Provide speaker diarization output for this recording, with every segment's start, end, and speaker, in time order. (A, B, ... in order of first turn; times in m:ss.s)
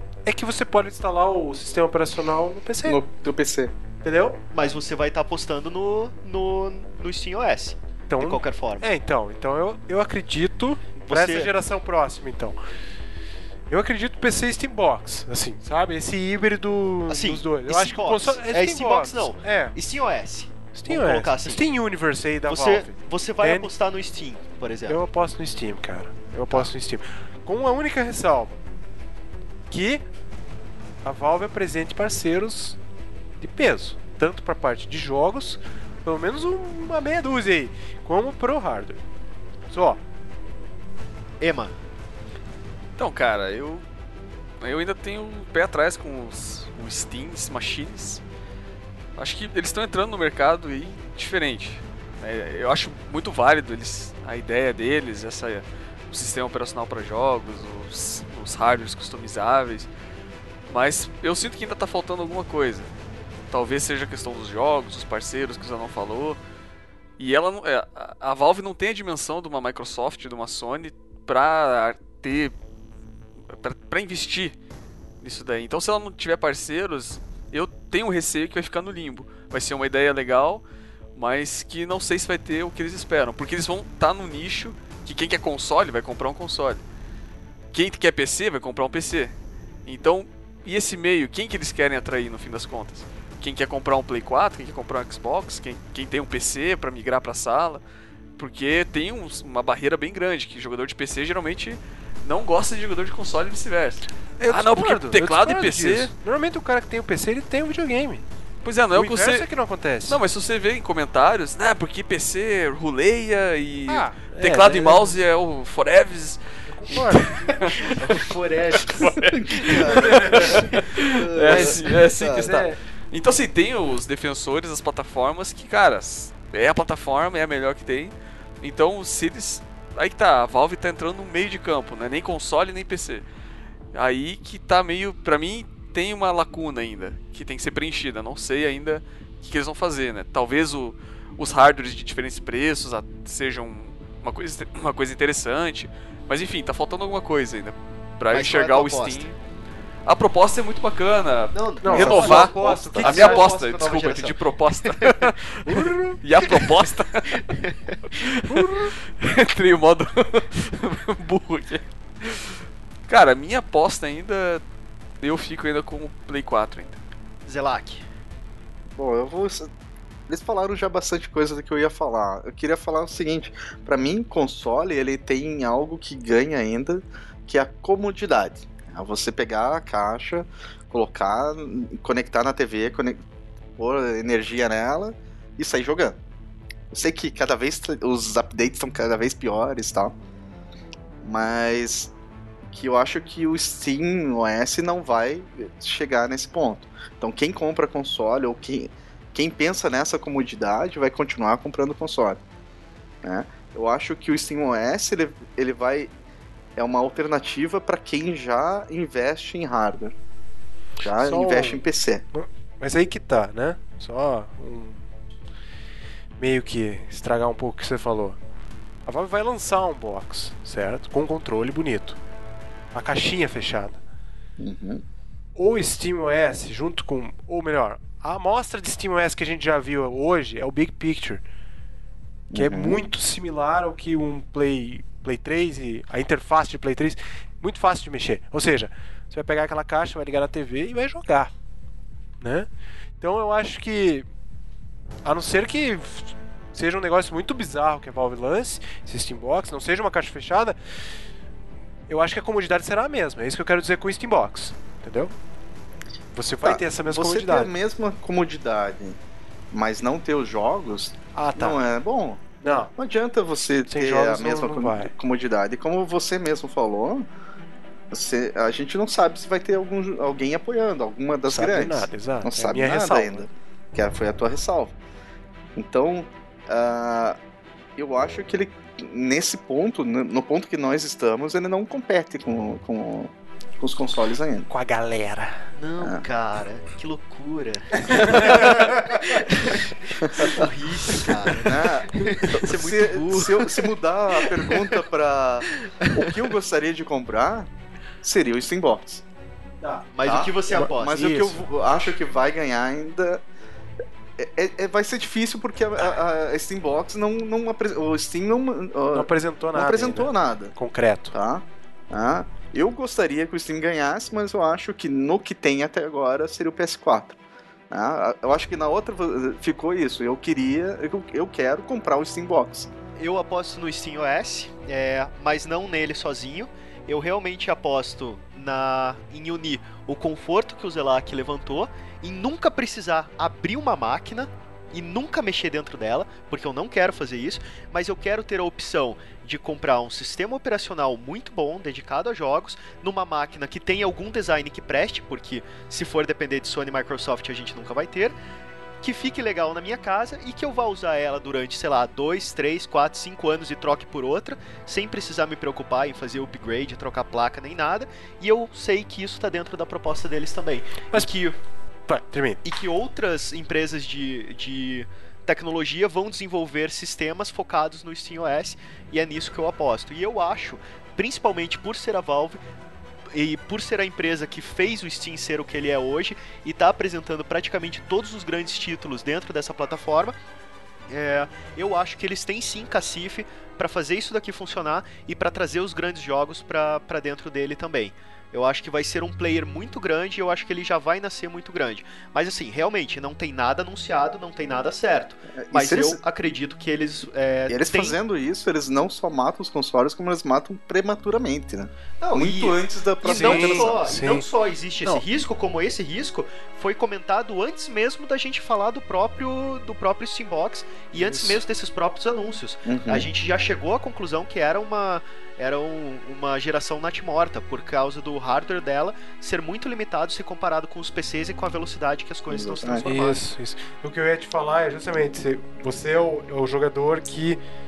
0:00.3-0:03.0 A
0:02.8-0:03.7 B
0:04.0-0:04.4 A
0:04.5-0:08.9 C
0:08.1-0:12.6 A
0:11.0-0:11.5 C
0:13.7-0:19.8 A
0:17.1-0:21.7 C
0:20.7-0:23.7 A
0:22.5-0:25.0 C
0:24.9-0:28.6 A
0:29.7-0:30.0 A
0:31.0-0:32.8 A
0:33.4-0:39.0 A
0:39.7-0:40.0 A
0:41.4-0:41.8 C
0:43.0-0:43.9 D
0:44.6-0:48.2 D
0:49.2-0:59.9 D
1:00.7-1:02.9 D
1:03.5-1:06.4 D
1:07.2-1:12.6 D
1:13.5-1:14.6 D
1:15.2-1:20.6 D
1:21.2-1:26.8 D
1:27.7-1:29.4 D
1:29.9-1:37.8 D
1:38.4-1:46.1 D
1:44.5-1:48.2 A
1:48.6-1:49.5 D
1:48.9-1:50.2 A
1:50.1-1:58.0 D
1:53.9-1:55.2 A
1:56.7-1:57.9 A
1:57.5-1:59.2 C
1:58.8-2:13.2 D
1:59.4-2:02.6 B
2:00.0-2:00.6 A
2:01.4-2:02.8 A
2:13.9-2:29.3 D
2:28.3-2:29.4 C
2:30.0-2:37.5 D
2:31.5-2:35.3 C
2:31.8-2:33.6 A
2:35.7-2:36.2 A
2:36.4-2:36.7 C
2:37.3-2:38.9 C
2:38.1-2:44.6 D
2:45.2-2:47.0 D
2:47.5-2:48.0 C
2:49.0-2:49.7 B
2:50.3-3:03.2 B
3:03.8-3:06.2 B
3:06.9-3:10.2 B
3:11.2-3:12.1 B
3:12.7-3:22.4 B
3:23.2-3:26.1 B
3:26.8-3:30.2 B
3:31.0-3:32.2 B
3:31.2-3:35.0 A
3:36.4-3:38.4 A
3:39.0-3:42.2 A
3:42.9-3:44.0 A
3:44.6-3:45.0 B
3:45.6-3:51.4 A
3:52.5-3:53.0 B
3:52.6-4:01.5 A
4:02.4-4:02.7 A
4:03.2-4:04.3 A
4:05.2-4:10.8 A
4:12.1-4:15.3 A
4:16.3-4:17.7 A
4:16.6-4:19.2 B
4:19.7-4:27.3 B
4:21.3-4:21.8 A
4:22.6-4:22.9 A
4:23.9-4:25.1 A
4:28.1-4:35.0 B
4:31.5-4:33.5 A
4:35.8-4:37.4 B
4:38.0-4:44.7 B
4:44.7-4:45.6 A
4:45.8-4:55.0 C
4:48.1-4:49.2 A
4:50.2-4:50.6 B
4:51.5-4:57.7 B
4:55.7-4:56.3 C
4:58.2-4:59.2 B
4:59.8-5:00.1 A
5:00.1-5:01.3 C
5:00.2-5:03.4 B
5:01.0-5:01.7 A
5:04.4-5:10.8 B
5:09.1-5:11.3 A
5:11.3-5:17.4 B
5:17.9-5:22.9 B
5:23.2-5:48.4 C
5:49.0-6:01.6 C
6:02.1-6:02.6 A
6:02.6-6:12.6 C
6:13.3-6:20.4 C
6:21.1-6:38.2 C
6:35.5-6:36.2 B
6:37.7-6:44.1 B
6:42.2-7:03.4 C
6:43.2-6:44.5 A
6:51.2-6:51.6 A
6:52.8-6:53.3 B
7:02.5-7:03.1 B
7:03.0-7:07.6 A